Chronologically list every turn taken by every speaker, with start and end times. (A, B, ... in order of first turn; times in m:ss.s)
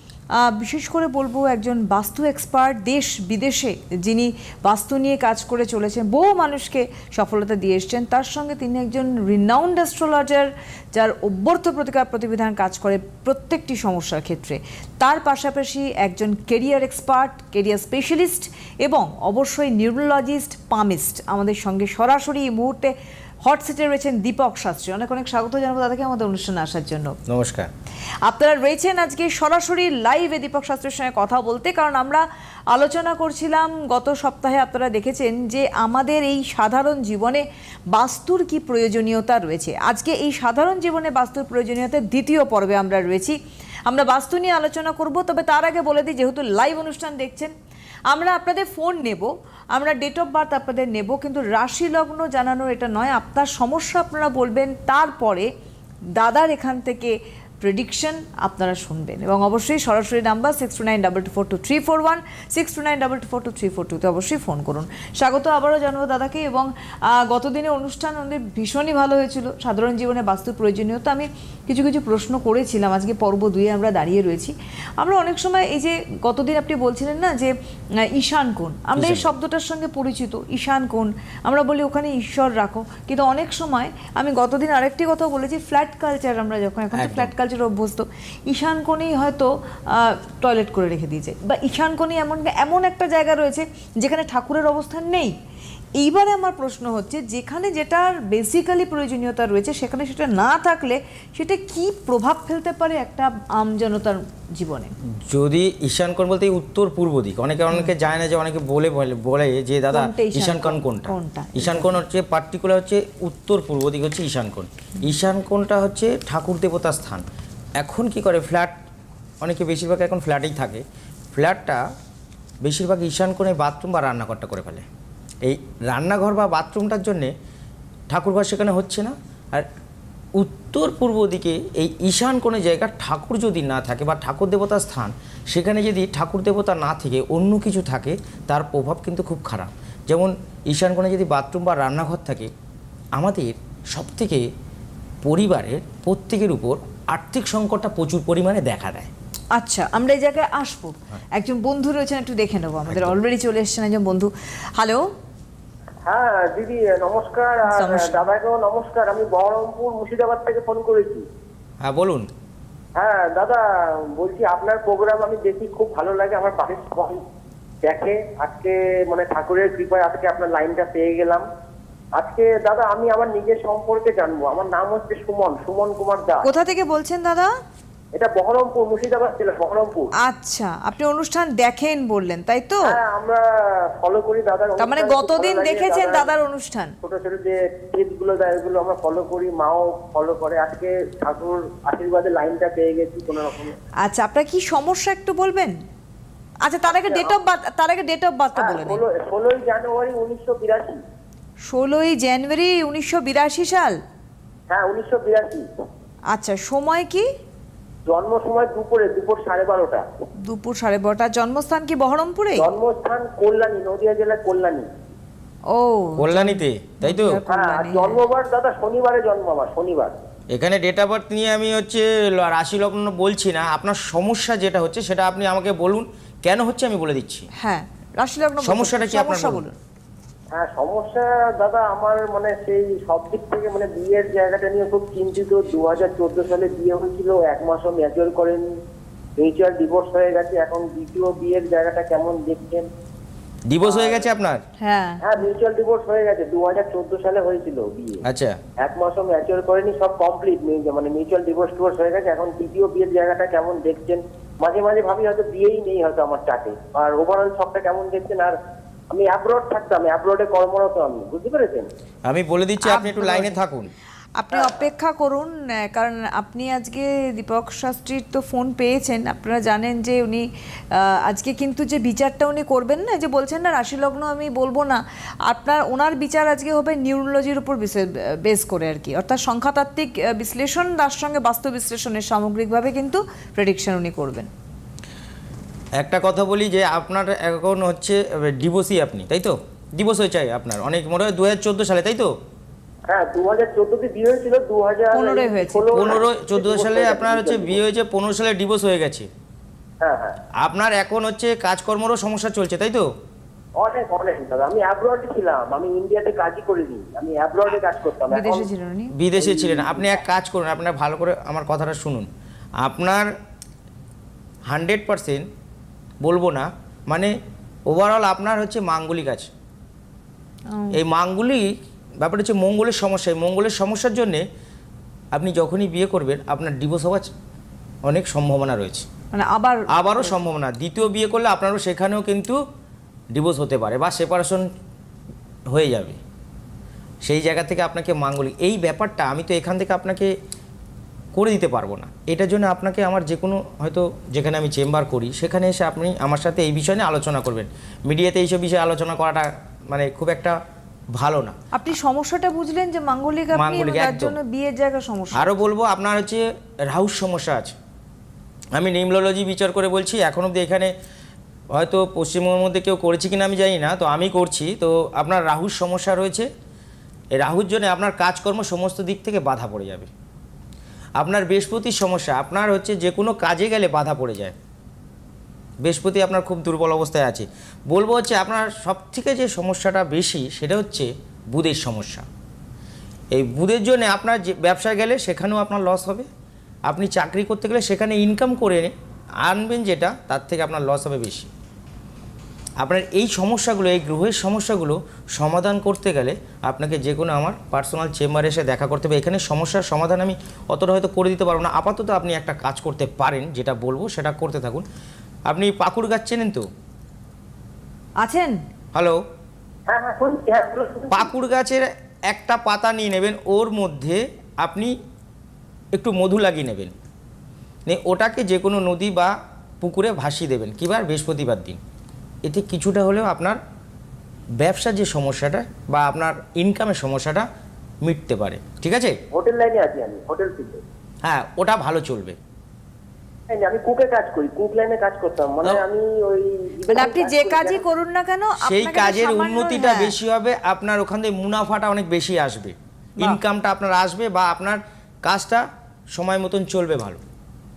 0:00.4-0:22.9 A
0:23.4-0:27.2 A
0:27.3-0:27.7 B
0:28.2-0:47.5 A
0:48.1-0:55.5 A
0:56.2-1:35.4 A
1:19.0-1:19.3 B
1:27.0-1:27.3 B
1:36.0-1:45.0 A
1:45.2-1:57.2 B
1:49.9-1:52.0 A
1:57.8-1:58.8 B
1:59.4-2:00.8 B
2:01.4-2:01.8 B
2:02.6-2:04.9 B
2:05.4-2:07.3 B
2:08.1-2:09.7 B
2:10.4-2:22.5 B
2:23.2-2:24.5 B
2:25.2-2:29.1 B
2:29.6-2:35.1 A
2:32.9-2:33.2 B
2:36.1-2:41.2 C
2:37.7-2:38.2 A
2:41.8-2:42.3 B
2:43.0-2:43.6 C
2:44.2-2:47.2 C
2:47.8-2:51.4 C
2:52.2-2:56.5 C
2:56.4-2:57.5 A
2:58.2-3:00.1 C
3:00.2-3:02.9 A
3:02.8-3:06.3 C
3:04.8-3:07.0 A
3:07.0-3:13.8 C
3:14.0-3:15.8 A
3:16.6-3:19.0 A
3:16.9-3:17.4 C
3:18.6-3:21.0 C
3:21.7-3:24.0 A
3:24.7-3:25.7 C
3:26.3-3:27.3 A
3:28.1-3:30.1 C
3:30.4-3:32.7 A
3:32.6-3:34.9 C
3:35.7-3:38.2 A
3:36.2-3:37.4 B
3:37.5-3:40.2 C
3:40.5-3:47.5 B
3:47.6-3:49.7 A
3:48.6-3:49.6 B
3:50.5-3:58.6 C
3:59.4-4:02.9 C
4:03.7-4:04.6 B
4:03.8-4:04.3 C
4:04.8-4:05.2 A
4:05.2-4:08.2 C
4:08.2-4:08.6 B
4:08.8-4:18.6 C
4:19.1-4:21.9 C
4:22.3-4:23.9 B
4:22.8-4:23.6 A
4:24.4-4:44.5 A
4:24.5-4:24.8 C
4:46.0-4:52.4 B
4:53.1-4:57.8 C
4:55.1-4:56.2 A
4:55.9-4:59.3 B
5:00.0-5:00.4 C
5:00.6-5:03.1 B
5:03.8-5:08.7 C
5:08.3-5:09.1 A
5:09.1-5:12.3 B
5:09.4-5:10.2 C
5:12.8-5:13.3 B
5:14.7-5:15.5 B
5:16.2-5:17.4 B
5:17.9-5:19.5 B
5:20.7-5:21.0 A
5:20.9-5:24.5 B
5:25.3-5:27.3 B
5:28.0-5:29.1 B
5:29.3-5:30.3 A
5:29.9-5:32.6 B
5:33.3-5:34.7 B
5:35.7-5:36.2 B
5:37.2-5:40.3 B
5:41.4-5:50.6 B
5:51.1-5:51.6 B
5:51.7-5:55.5 A
5:53.5-5:54.4 B
5:55.3-5:57.8 B
5:58.8-6:00.9 B
6:01.7-6:06.5 B
6:07.4-6:10.1 B
6:11.2-6:14.6 B
6:15.8-6:22.3 B
6:23.3-6:26.3 B
6:26.9-6:28.9 B
6:29.4-6:31.5 B
6:32.8-6:44.9 B
6:45.5-6:46.7 B
6:48.2-6:48.6 A
6:48.9-6:49.2 B
6:49.9-6:51.3 C
6:51.1-6:55.0 B
6:55.9-6:56.9 B
6:57.9-7:01.8 B
7:02.4-7:03.6 B
7:04.6-7:07.5 B
7:08.0-7:09.2 B
7:09.3-7:10.8 C
7:11.2-7:12.4 B
7:13.5-7:17.8 C
7:16.9-7:20.2 A
7:18.6-7:27.2 B